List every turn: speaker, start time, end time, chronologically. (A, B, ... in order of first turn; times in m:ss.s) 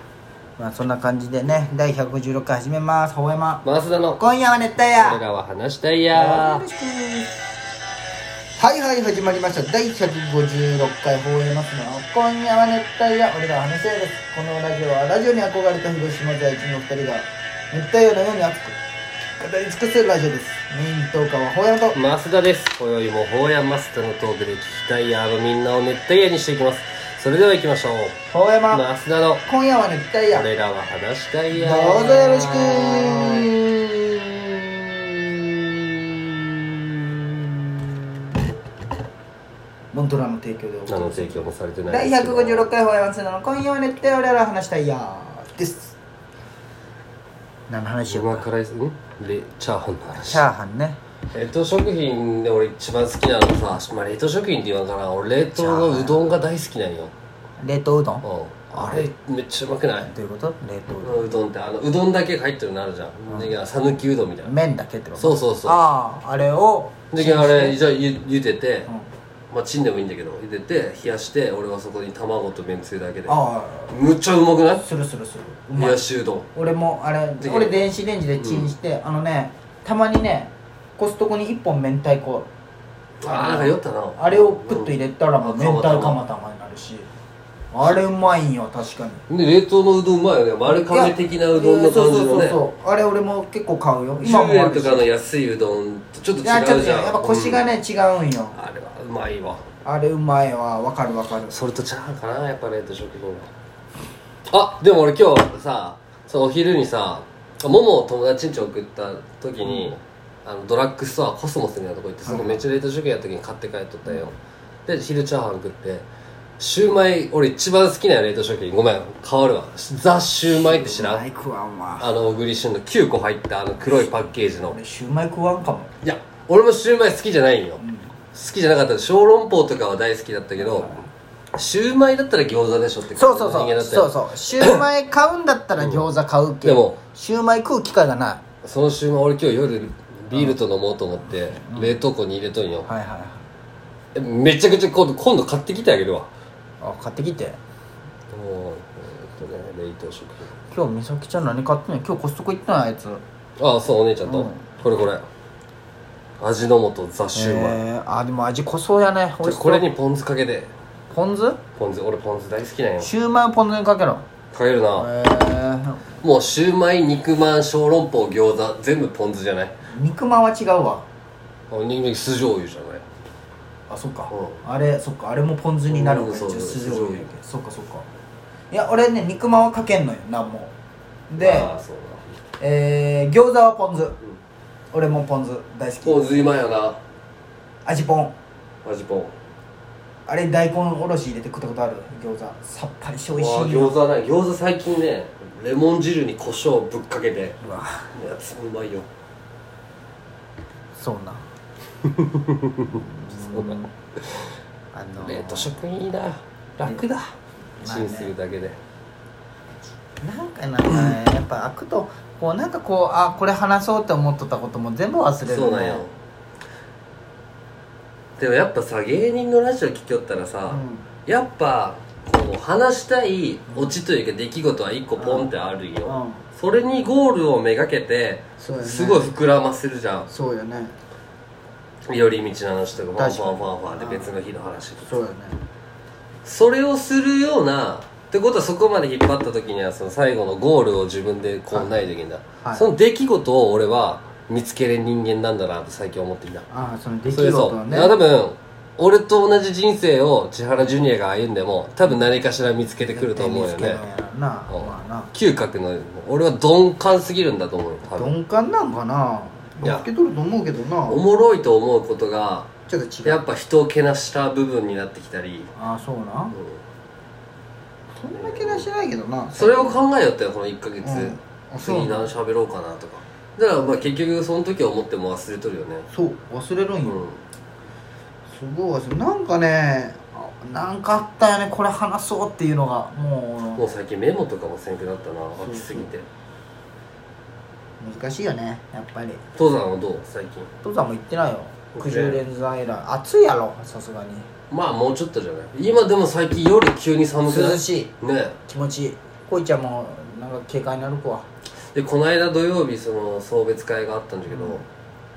0:00.6-0:03.6 A
0:03.6-0:04.2 B
0:04.2-0:05.2 A
0:04.9-0:06.6 B
0:06.1-0:07.3 A
0:08.5-0:18.8 A
0:19.4-0:22.0 A
0:21.9-0:28.2 B
0:28.3-0:28.8 A
0:28.7-0:29.4 B
0:29.4-0:30.5 A
0:30.3-0:33.5 B
0:31.5-0:35.4 A
0:39.9-0:45.9 A
0:40.9-0:42.7 B
0:47.7-0:48.4 A
0:48.1-0:50.4 B
0:50.2-0:51.0 A
0:51.3-0:57.1 B
0:55.5-0:56.2 A
0:57.6-0:59.1 A
0:58.2-1:00.1 B
1:00.1-1:01.3 A
1:01.0-1:04.5 B
1:04.4-1:07.8 A
1:05.2-1:05.8 B
1:07.1-1:08.9 B
1:09.5-1:13.4 B
1:13.3-1:13.9 A
1:13.9-1:14.8 B
1:14.8-1:16.0 A
1:15.8-1:16.5 B
1:16.5-1:22.5 A
1:17.4-1:17.8 B
1:18.4-1:18.7 B
1:23.2-1:26.2 B
1:23.2-1:27.1 A
1:27.7-1:29.2 A
1:29.3-1:32.6 B
1:30.7-1:35.1 A
1:34.2-1:37.6 B
1:36.4-1:38.6 A
1:38.5-1:39.6 B
1:39.8-1:41.6 A
1:41.5-1:43.5 B
1:44.5-1:56.0 B
1:52.2-1:52.6 A
1:56.6-2:01.2 B
2:00.5-2:02.2 A
2:02.0-2:04.8 B
2:04.7-2:05.9 A
2:06.0-2:07.8 B
2:07.8-2:08.1 A
2:08.3-2:11.0 B
2:10.6-2:11.0 A
2:11.5-2:14.8 B
2:13.1-2:18.4 A
2:15.8-2:16.1 B
2:16.6-2:17.0 B
2:18.6-2:22.9 B
2:21.3-2:22.0 A
2:22.8-2:23.4 A
2:24.1-2:26.3 B
2:26.8-2:27.6 A
2:28.3-2:30.5 B
2:30.7-2:33.2 A
2:33.6-2:35.2 B
2:34.3-2:34.7 A
2:36.4-2:37.8 B
2:37.3-2:39.9 A
2:39.4-2:40.7 B
2:41.1-2:41.6 A
2:41.8-2:43.1 B
2:43.0-2:44.2 A
2:44.5-2:45.1 B
2:45.0-2:46.1 A
2:46.2-2:49.7 B
2:49.9-2:51.0 A
2:51.7-2:53.0 B
2:53.9-2:58.0 A
2:54.3-2:54.6 B
2:55.9-2:57.3 B
2:58.7-3:00.7 A
3:01.3-3:01.7 A
3:01.4-3:02.2 B
3:02.6-3:04.2 A
3:04.9-3:06.4 A
3:06.0-3:07.0 B
3:07.8-3:08.3 A
3:08.8-3:09.3 B
3:10.3-3:14.0 A
3:13.3-3:17.6 B
3:17.6-3:18.1 A
3:18.1-3:19.1 B
3:21.0-3:21.4 A
3:22.0-3:24.4 B
3:22.8-3:23.9 A
3:24.9-3:25.8 A
3:25.2-3:27.3 B
3:27.8-3:28.3 A
3:27.8-3:28.8 B
3:30.2-3:36.0 A
3:35.4-3:36.1 B
3:38.4-3:50.3 B
3:40.7-3:41.1 A
3:43.7-3:44.0 A
3:45.2-3:45.5 A
3:46.0-3:46.4 A
3:48.6-3:49.3 A
3:50.3-3:50.9 A
3:52.1-3:55.2 B
3:53.2-3:54.3 A
3:55.0-3:55.6 A
3:56.4-4:06.7 B
4:01.7-4:02.0 A
4:06.7-4:08.1 A
4:07.3-4:14.0 B
4:13.1-4:15.3 A
4:14.7-4:18.3 B
4:18.1-4:21.2 A
4:21.1-4:22.7 B
4:22.9-4:23.5 A
4:23.2-4:25.7 B
4:25.8-4:26.5 A
4:26.5-4:26.8 B
4:28.2-4:30.0 A
4:28.3-4:28.9 B
4:29.5-4:36.1 B
4:31.0-4:32.3 A
4:36.1-4:37.2 A
4:37.0-4:37.4 B
4:38.5-4:43.8 A
4:43.8-4:46.2 B
4:45.6-4:46.1 A
4:48.0-4:49.4 A
4:49.6-4:50.7 B
4:50.8-4:54.5 A
4:51.9-4:52.4 B
4:54.7-4:58.6 B
4:57.4-4:58.1 A
4:58.7-5:01.5 A
5:01.9-5:04.8 B
5:04.5-5:04.8 A